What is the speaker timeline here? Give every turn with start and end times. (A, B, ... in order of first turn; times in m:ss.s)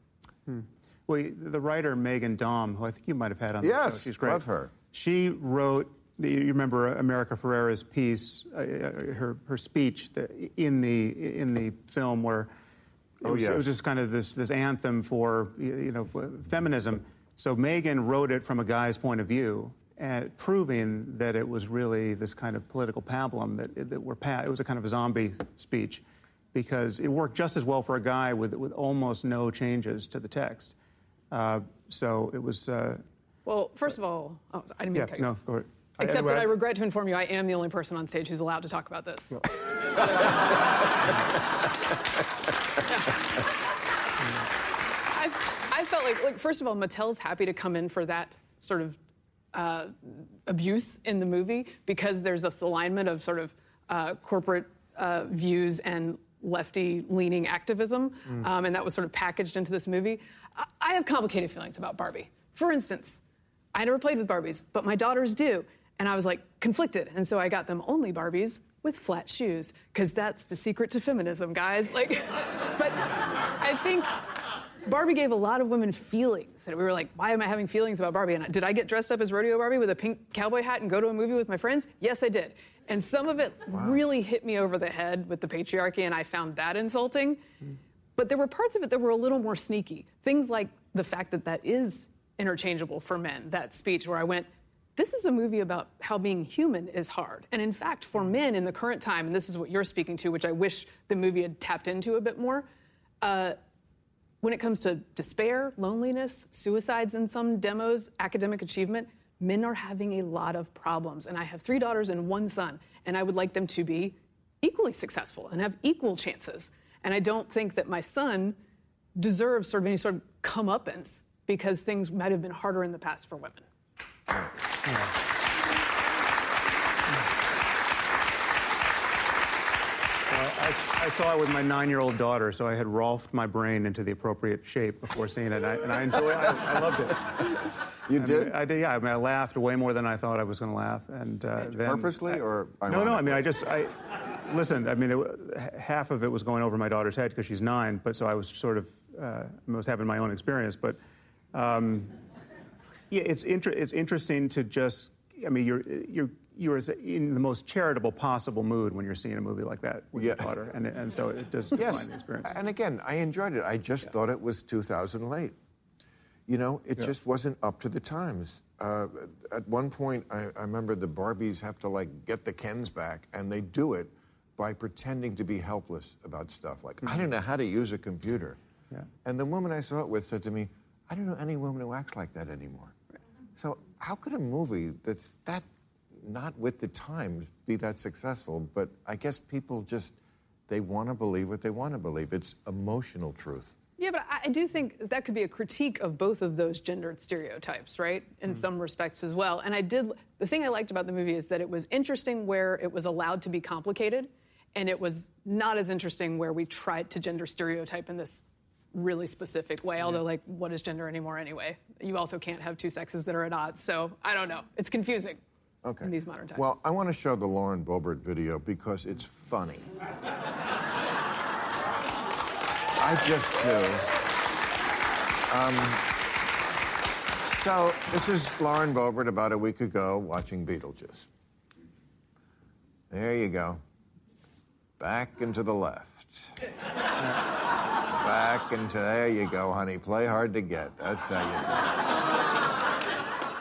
0:00.5-0:12.5 A
0:03.6-0:04.7 B
0:13.2-0:26.0 A
0:13.2-0:13.7 B
0:26.5-0:30.7 A
0:31.3-0:33.0 A
0:33.5-0:35.4 C
0:34.9-0:36.6 A
0:36.0-0:40.2 C
0:45.1-0:49.0 C
0:49.5-1:03.2 C
1:03.7-1:14.1 C
1:14.8-1:27.4 C
1:23.7-1:24.0 B
1:28.2-1:42.7 C
1:43.2-1:43.6 C
1:44.4-1:58.6 C
1:59.2-2:03.6 C
2:04.9-2:05.1 A
2:10.3-2:17.5 A
2:18.1-2:18.6 B
2:18.2-2:31.0 A
2:21.6-2:23.5 B
2:31.5-2:32.2 A
2:33.1-2:42.5 A
2:40.2-2:40.6 B
2:41.8-2:45.6 B
2:46.5-2:58.6 B
2:59.2-3:03.0 B
3:03.6-3:10.1 B
3:10.7-3:13.8 B
3:14.0-3:35.4 C
3:35.8-3:39.9 B
3:36.0-3:36.6 C
3:43.0-3:44.1 B
3:45.5-3:46.1 B
3:47.5-3:51.3 B
3:53.1-3:53.8 B
3:55.0-3:56.6 B
3:58.2-4:02.0 B